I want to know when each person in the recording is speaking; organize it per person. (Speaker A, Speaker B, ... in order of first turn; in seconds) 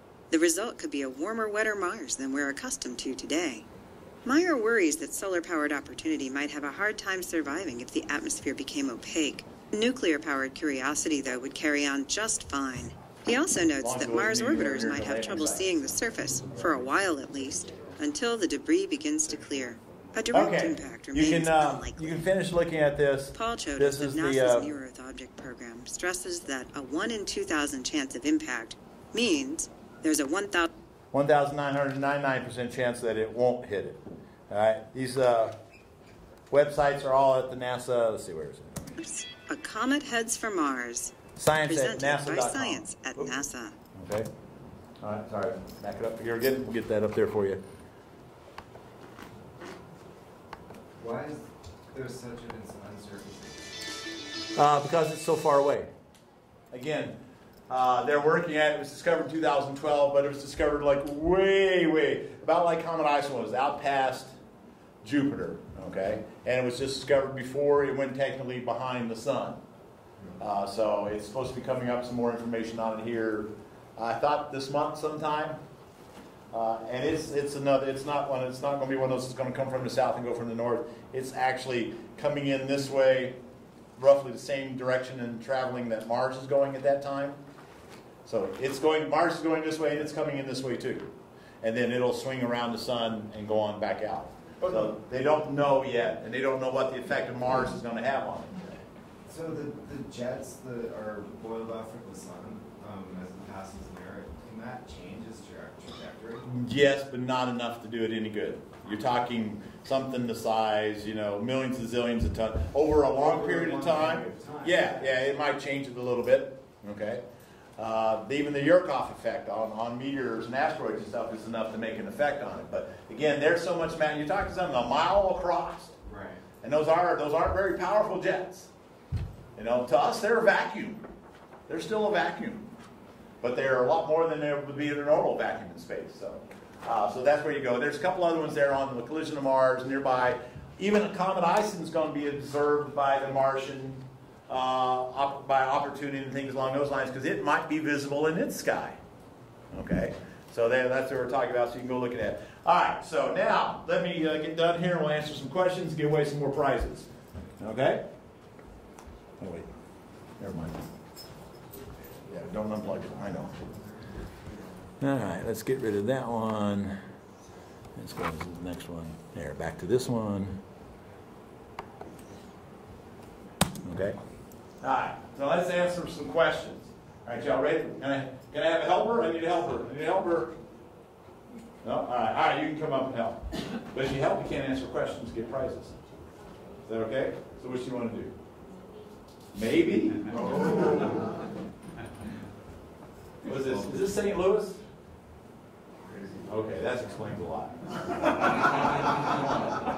Speaker A: 0.3-3.6, 4.2-22.2, 23.3-30.7, 39.0-43.8
Speaker B: 13.8-15.7, 20.3-24.7, 31.1-35.6, 36.5-39.0, 41.4-43.3, 44.0-44.3, 45.0-47.6, 54.6-55.9, 56.7-57.2, 57.7-64.3, 65.0-69.6, 70.4-75.6, 76.5-83.4, 84.0-87.4, 88.2-98.8, 106.5-117.2, 117.8-126.0, 126.6-128.7, 129.6-131.0, 131.7-132.7, 133.4-149.0, 149.7-157.1, 157.6-158.1, 159.4-159.7, 160.4-160.9, 162.3-163.5, 165.0-167.0, 168.0-170.6, 173.8-174.2, 174.8-180.6, 181.8-186.0, 186.8-188.3, 189.5-191.1, 193.4-194.8, 196.5-198.7
Speaker C: 51.0-53.8, 99.3-106.5, 113.2-115.2, 126.0-126.4, 162.7-163.7, 190.4-191.2, 193.5-194.1, 196.1-196.4